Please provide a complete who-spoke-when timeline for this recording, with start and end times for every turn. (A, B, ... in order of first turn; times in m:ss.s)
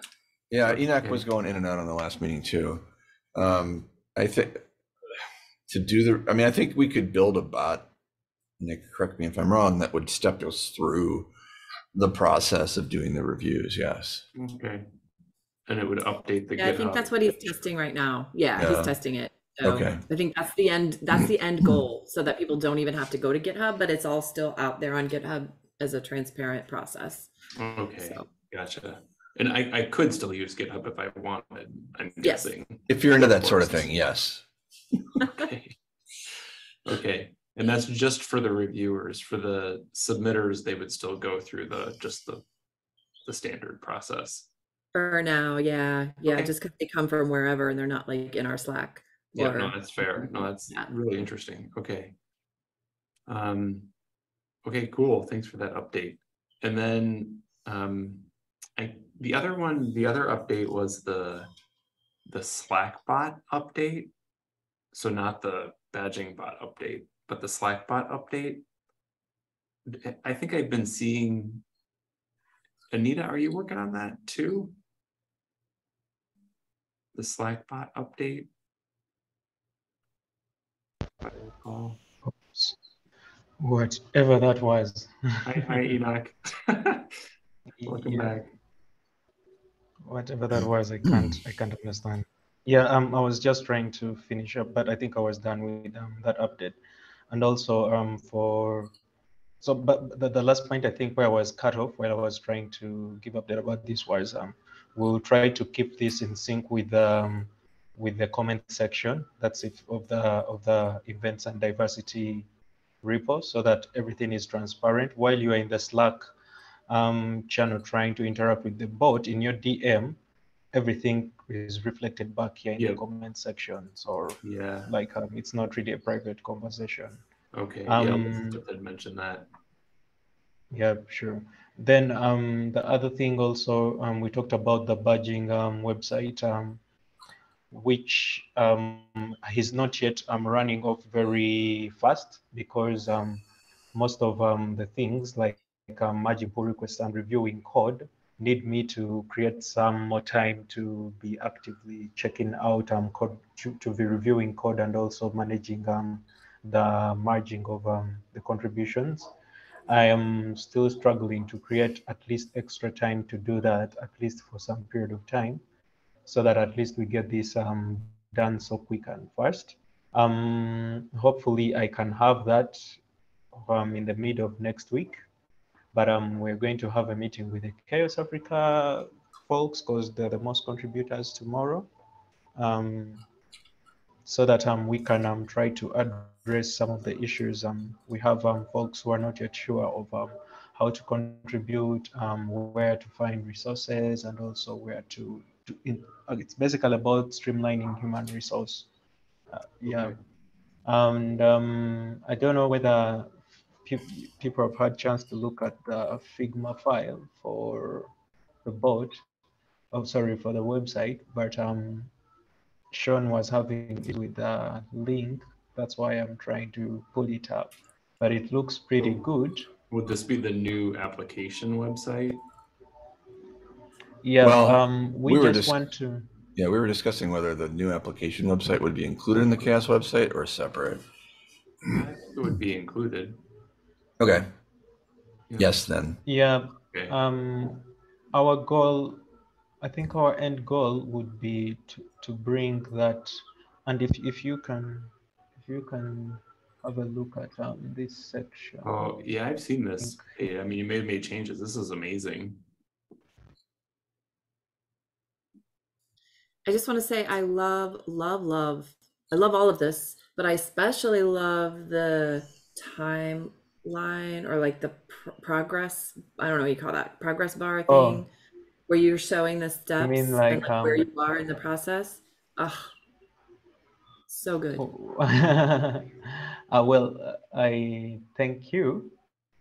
0:00.5-0:04.6 A
0:00.7-0:01.2 B
0:05.7-0:07.9 A
0:08.6-0:11.3 A
0:11.9-0:14.2 A
0:14.3-0:14.8 B
0:15.7-0:17.6 B
0:16.6-0:27.3 C
0:18.6-0:18.9 A
0:19.6-0:20.0 A
0:27.5-0:33.9 B
0:32.9-0:34.4 A
0:35.2-0:35.8 B
0:36.8-0:42.4 B
0:43.2-0:44.5 B
0:44.9-0:50.9 C
0:46.2-0:46.5 B
0:49.3-0:52.1 B
0:53.3-0:53.9 B
0:54.6-1:01.5 B
1:02.3-1:04.1 B
1:04.9-1:08.6 B
1:09.9-1:11.6 B
1:12.9-1:14.7 B
1:17.1-1:18.5 B
1:21.2-1:22.0 B
1:22.2-1:22.8 D
1:23.6-1:25.8 D
1:25.4-1:27.1 B
1:27.8-1:28.4 D
1:27.8-1:28.5 B
1:30.0-1:36.8 D
1:37.3-1:38.9 D
1:39.6-1:52.5 D
1:53.0-1:56.3 D
1:56.9-2:00.2 D
2:00.7-2:07.2 D
2:04.4-2:04.9 B
2:07.5-2:09.5 B
2:07.9-2:08.6 D
2:10.7-2:16.8 D
2:17.7-2:23.4 D
2:23.9-2:39.3 D
2:39.9-2:45.6 D
2:46.2-2:53.0 D
2:53.5-2:55.2 D
2:55.9-3:01.9 D
3:02.6-3:03.2 D
3:04.2-3:18.9 D
3:19.5-3:20.2 D
3:19.9-3:20.2 B
3:20.8-3:28.1 D
3:28.6-3:29.2 D
3:29.9-3:32.1 D
3:32.9-3:39.7 D
3:39.9-3:42.4 B
3:44.2-3:46.3 D
3:44.4-3:45.8 A
3:46.6-3:51.0 A
3:51.8-3:53.4 B
3:54.2-3:54.4 A
3:55.5-3:55.8 B
3:55.6-3:56.2 A
3:56.2-3:59.2 D
3:56.9-3:57.2 B
3:59.8-4:08.9 D
4:08.8-4:12.6 B
4:16.6-4:28.3 C
4:27.9-4:28.2 D
4:28.9-4:32.9 C
4:30.0-4:31.1 D
4:34.3-4:34.8 C
4:34.8-4:39.1 D